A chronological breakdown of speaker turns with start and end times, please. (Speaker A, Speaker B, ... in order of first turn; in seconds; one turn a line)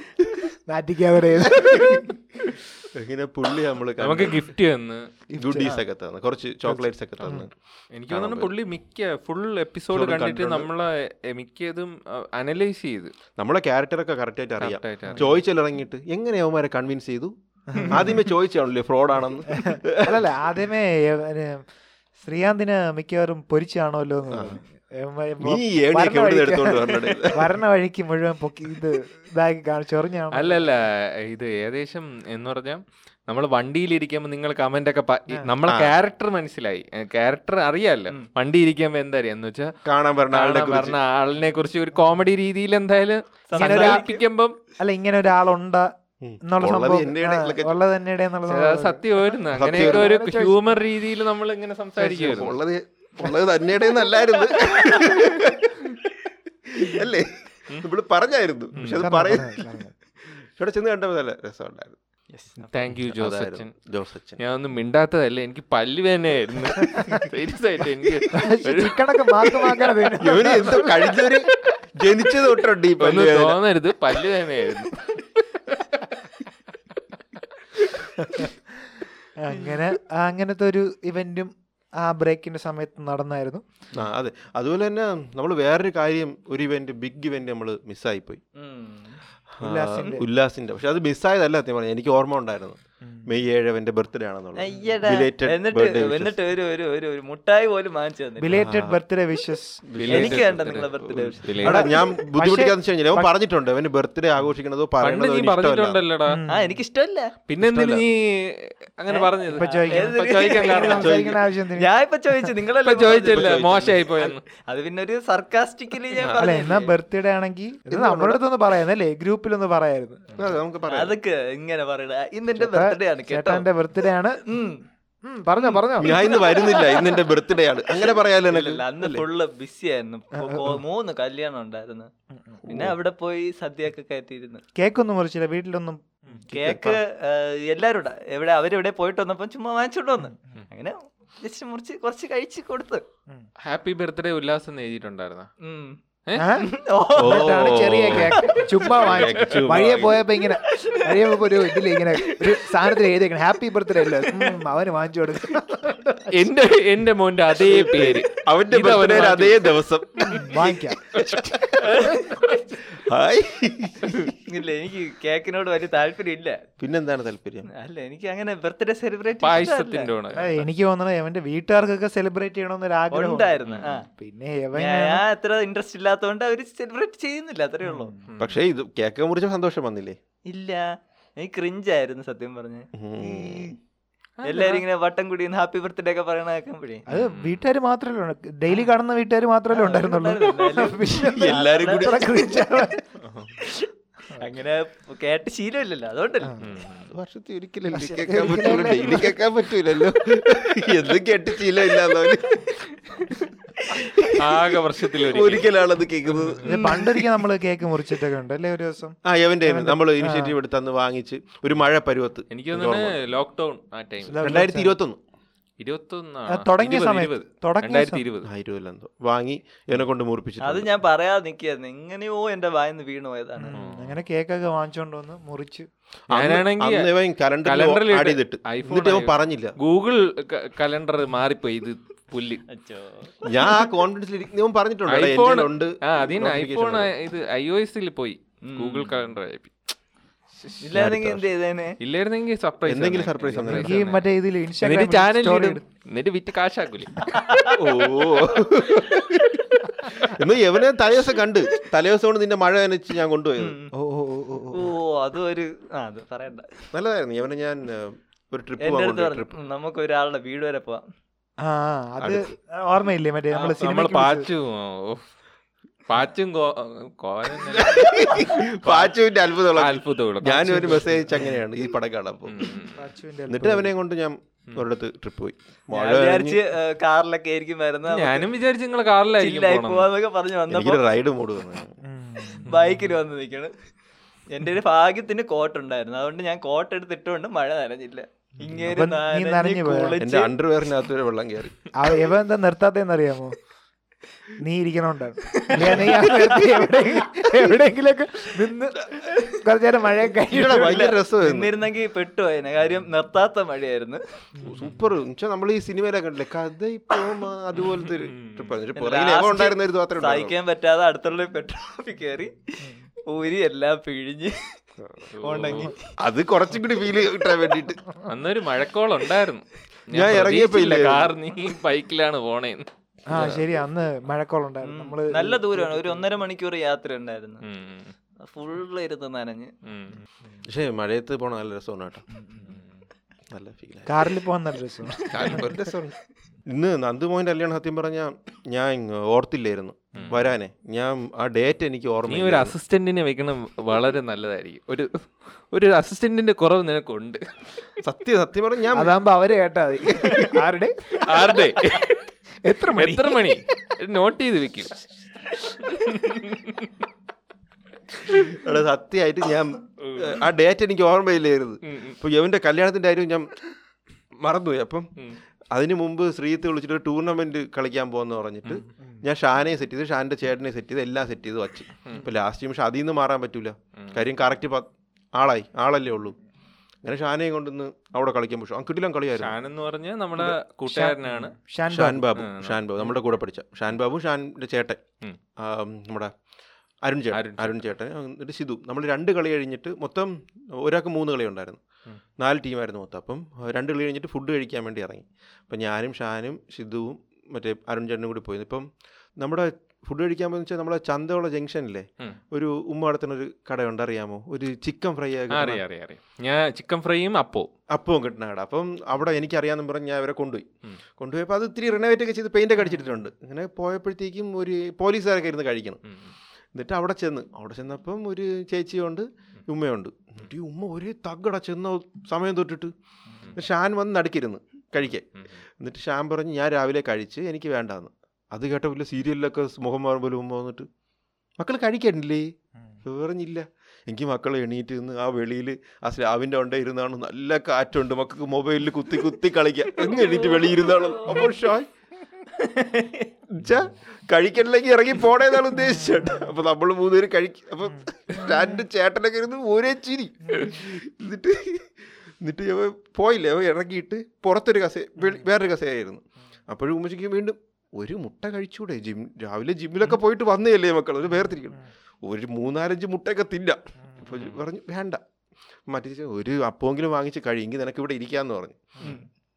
Speaker A: 0.7-2.1
Speaker B: 1.4-2.1
Speaker B: 2.9-4.5
Speaker C: 4.0-5.0
Speaker A: 5.3-5.7
Speaker B: 5.4-7.5
Speaker A: 6.7-7.5
Speaker C: 7.9-13.1
Speaker B: 8.1-8.5
Speaker B: 9.9-10.7
Speaker B: 13.3-20.4
Speaker C: 14.6-15.4
Speaker A: 17.7-18.2
Speaker A: 19.5-21.7
Speaker A: 22.2-30.6
Speaker B: 24.3-24.6
Speaker B: 25.4-27.5
Speaker C: 30.3-39.7
Speaker B: 35.7-36.0
Speaker B: 39.9-41.0
Speaker C: 40.3-44.5
Speaker D: 43.5-44.2
Speaker A: 43.6-44.0
Speaker A: 44.8-45.9
Speaker B: 46.2-47.7
Speaker A: 46.4-49.0
Speaker C: 48.5-52.6
Speaker B: 49.5-50.5
Speaker A: 49.7-50.5
Speaker B: 52.0-56.1
Speaker B: 56.7-59.6
Speaker C: 58.8-59.3
Speaker A: 59.0-59.9
Speaker B: 60.5-62.0
Speaker D: 62.3-62.7
Speaker C: 62.7-63.7
Speaker B: 63.1-64.4
Speaker C: 64.4-70.5
Speaker A: 66.8-67.2
Speaker A: 68.3-71.3
Speaker B: 70.2-73.6
Speaker C: 73.0-76.1
Speaker A: 78.2-83.6
Speaker B: 83.9-88.4
Speaker D: 88.6-89.2
Speaker B: 89.5-96.3
Speaker A: 89.6-90.2
Speaker A: 93.0-93.3
Speaker D: 94.5-98.6
Speaker A: 98.4-99.8
Speaker B: 98.5-99.0
Speaker B: 99.8-106.0
Speaker C: 100.0-102.0
Speaker D: 100.1-101.8
Speaker A: 101.6-103.3
Speaker C: 105.0-106.4
Speaker A: 106.2-106.8
Speaker D: 106.5-107.3
Speaker C: 107.5-111.2
Speaker B: 107.6-108.0
Speaker D: 109.1-116.9
Speaker A: 109.5-112.5
Speaker B: 111.0-111.3
Speaker C: 112.8-114.4
Speaker B: 113.3-113.9
Speaker A: 116.4-120.4
Speaker B: 117.9-118.4
Speaker B: 120.3-121.2
Speaker D: 120.9-123.7
Speaker A: 122.5-124.4
Speaker D: 124.5-124.8
Speaker A: 125.2-126.3
Speaker D: 125.6-127.3
Speaker B: 126.0-129.2
Speaker D: 128.4-132.1
Speaker A: 130.3-130.8
Speaker A: 132.3-132.6
Speaker D: 132.6-134.6
Speaker B: 132.7-132.9
Speaker A: 134.8-136.4
Speaker B: 136.5-137.0
Speaker D: 136.5-143.0
Speaker C: 143.6-145.5
Speaker D: 145.6-149.0
Speaker A: 146.3-156.4
Speaker B: 147.2-150.3
Speaker C: 149.2-149.8
Speaker D: 150.7-151.7
Speaker C: 156.3-159.8
Speaker B: 157.6-164.3
Speaker A: 160.2-162.2
Speaker D: 161.8-162.4
Speaker D: 164.4-166.7
Speaker B: 166.8-167.7
Speaker D: 167.7-170.1
Speaker C: 169.4-170.7
Speaker A: 170.3-175.2
Speaker D: 173.1-174.1
Speaker C: 173.7-174.0
Speaker D: 174.7-178.1
Speaker A: 177.8-178.2
Speaker C: 178.3-178.6
Speaker B: 178.4-180.2
Speaker D: 180.5-183.6
Speaker B: 182.9-183.8
Speaker C: 184.4-184.8
Speaker D: 184.4-187.0
Speaker A: 187.1-193.1
Speaker C: 187.1-187.7
Speaker D: 189.7-192.8
Speaker B: 191.1-192.4
Speaker C: 193.2-193.6
Speaker D: 194.3-196.6
Speaker A: 196.4-196.7
Speaker C: 196.6-197.1
Speaker B: 197.1-202.6
Speaker A: 197.9-199.4
Speaker D: 203.7-204.4
Speaker C: 204.2-206.8
Speaker B: 205.2-207.1
Speaker A: 206.6-210.5
Speaker B: 209.2-213.2
Speaker C: 212.5-214.7
Speaker A: 214.3-215.0
Speaker B: 214.4-215.2
Speaker C: 215.8-218.5
Speaker A: 216.5-218.2
Speaker B: 218.4-220.9
Speaker D: 220.6-223.8
Speaker A: 223.6-225.9
Speaker C: 223.7-224.2
Speaker B: 226.3-229.7
Speaker C: 226.3-232.6
Speaker D: 232.7-233.3
Speaker B: 233.4-237.1
Speaker C: 235.1-239.8
Speaker D: 238.6-239.1
Speaker D: 240.8-242.0
Speaker B: 240.9-241.4
Speaker C: 242.0-244.3
Speaker B: 242.8-244.0
Speaker A: 243.6-245.8
Speaker C: 244.8-247.3
Speaker D: 247.3-247.8
Speaker B: 247.7-253.8
Speaker D: 253.6-253.9
Speaker A: 253.9-254.9
Speaker D: 254.7-256.9
Speaker B: 256.9-259.5
Speaker D: 258.8-261.0
Speaker A: 261.6-264.5
Speaker B: 262.2-262.5
Speaker C: 263.5-265.2
Speaker C: 266.1-269.1
Speaker B: 267.6-272.8
Speaker C: 269.7-271.5
Speaker A: 270.9-271.4
Speaker C: 272.5-273.0
Speaker A: 272.9-273.9
Speaker B: 273.5-276.6
Speaker D: 275.9-278.5
Speaker C: 278.1-280.1
Speaker D: 279.4-281.0
Speaker B: 280.7-282.0
Speaker A: 282.0-282.7
Speaker D: 282.6-283.7
Speaker D: 284.5-290.5
Speaker A: 288.6-290.2
Speaker B: 290.2-291.9
Speaker A: 291.9-293.6
Speaker A: 294.6-301.0
Speaker D: 295.5-297.1
Speaker B: 300.5-301.7
Speaker D: 300.6-304.2
Speaker A: 304.6-305.0
Speaker B: 304.6-310.5
Speaker C: 307.9-308.7
Speaker D: 309.0-314.7
Speaker A: 315.0-315.9
Speaker C: 315.3-315.9
Speaker D: 315.4-316.1
Speaker B: 316.2-318.0
Speaker C: 318.1-322.9
Speaker B: 320.1-321.3
Speaker A: 323.3-326.2
Speaker B: 323.3-323.6
Speaker D: 324.8-327.6
Speaker C: 327.6-328.1
Speaker D: 328.4-329.7
Speaker C: 329.8-330.2
Speaker B: 330.6-332.2
Speaker A: 332.3-332.7
Speaker B: 333.5-334.3
Speaker A: 334.1-335.8
Speaker B: 335.2-342.7
Speaker C: 340.1-340.5
Speaker C: 342.3-347.4
Speaker B: 348.0-349.1
Speaker A: 348.9-351.7
Speaker B: 350.1-350.5
Speaker C: 351.2-352.3
Speaker A: 352.6-353.6
Speaker C: 352.8-354.9
Speaker C: 355.9-356.9
Speaker B: 358.3-363.5
Speaker C: 360.0-360.4
Speaker C: 361.8-362.2
Speaker B: 364.4-365.1
Speaker B: 365.7-376.4
Speaker C: 374.0-374.2
Speaker B: 377.0-379.6
Speaker C: 379.4-381.5
Speaker A: 380.4-382.4
Speaker B: 381.9-385.0
Speaker C: 382.3-382.9
Speaker B: 385.6-386.3
Speaker B: 387.0-391.8
Speaker C: 387.3-387.9
Speaker B: 392.4-405.8
Speaker C: 405.5-407.7
Speaker B: 407.9-410.7
Speaker B: 411.2-416.0
Speaker B: 416.7-422.9
Speaker B: 423.5-430.9
Speaker B: 431.6-432.5
Speaker B: 433.0-441.9
Speaker D: 440.1-441.6
Speaker D: 442.5-443.3
Speaker B: 443.5-465.2
Speaker A: 445.8-446.5
Speaker A: 447.9-448.8
Speaker A: 450.5-450.8
Speaker B: 465.9-469.2
Speaker A: 469.0-469.2